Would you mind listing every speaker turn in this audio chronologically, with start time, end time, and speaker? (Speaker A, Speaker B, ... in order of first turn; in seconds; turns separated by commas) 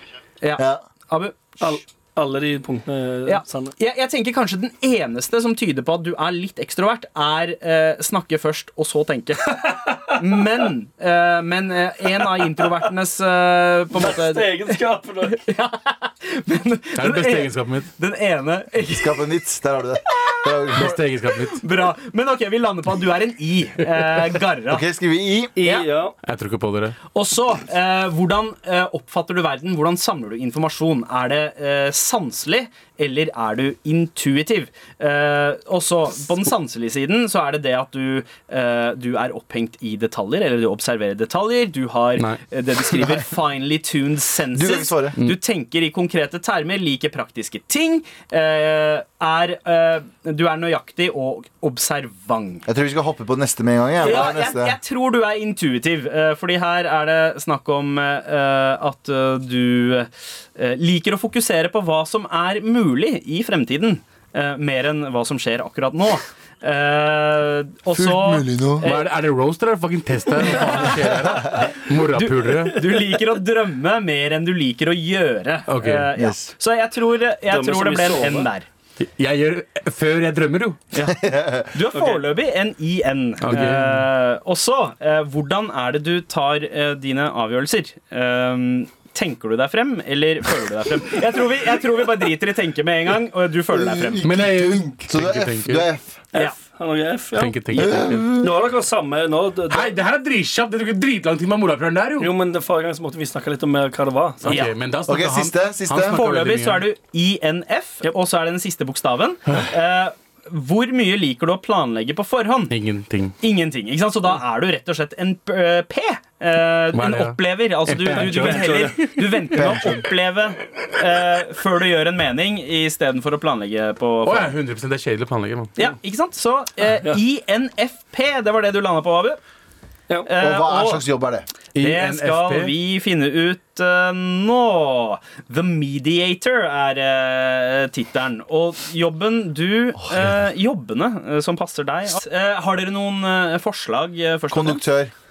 Speaker A: 0.4-1.8, Speaker B: 1.6-3.7, Speaker A: 3.3-19.3, Speaker B: 9.6-10.1, Speaker B: 13.9-15.4, Speaker C: 17.0-17.9, Speaker D: 18.9-21.0, Speaker A: 20.1-24.9, Speaker C: 20.7-21.6, Speaker D: 24.7-25.5, Speaker B: 25.6-26.2, Speaker A: 25.6-25.9, Speaker C: 26.2-27.0, Speaker A: 27.1-52.7, Speaker D: 43.0-43.3, Speaker D: 44.5-45.1, Speaker D: 52.7-54.8, Speaker A: 54.0-69.1, Speaker D: 67.9-68.9, Speaker C: 68.8-72.8, Speaker A: 71.6-78.7, Speaker C: 75.7-76.1, Speaker D: 76.2-76.5, Speaker B: 77.5-78.5, Speaker C: 79.0-80.8, Speaker A: 80.9-94.2, Speaker D: 81.2-81.7, Speaker B: 81.9-82.2, Speaker C: 83.4-84.1, Speaker D: 93.7-96.2, Speaker C: 94.2-95.9, Speaker B: 96.3-100.0, Speaker C: 97.4-98.3, Speaker D: 97.7-98.5, Speaker C: 99.7-102.3, Speaker B: 102.2-104.6, Speaker C: 104.4-106.9, Speaker A: 104.5-104.7, Speaker D: 105.1-106.2, Speaker A: 106.1-112.7, Speaker C: 112.7-113.3, Speaker A: 113.4-124.5, Speaker C: 116.9-119.6, Speaker B: 118.1-119.1, Speaker D: 119.5-120.0, Speaker C: 124.2-125.7, Speaker A: 125.8-129.4, Speaker A: 130.3-131.1, Speaker D: 130.4-131.5, Speaker C: 131.8-132.7, Speaker A: 131.8-144.8, Speaker D: 144.5-145.1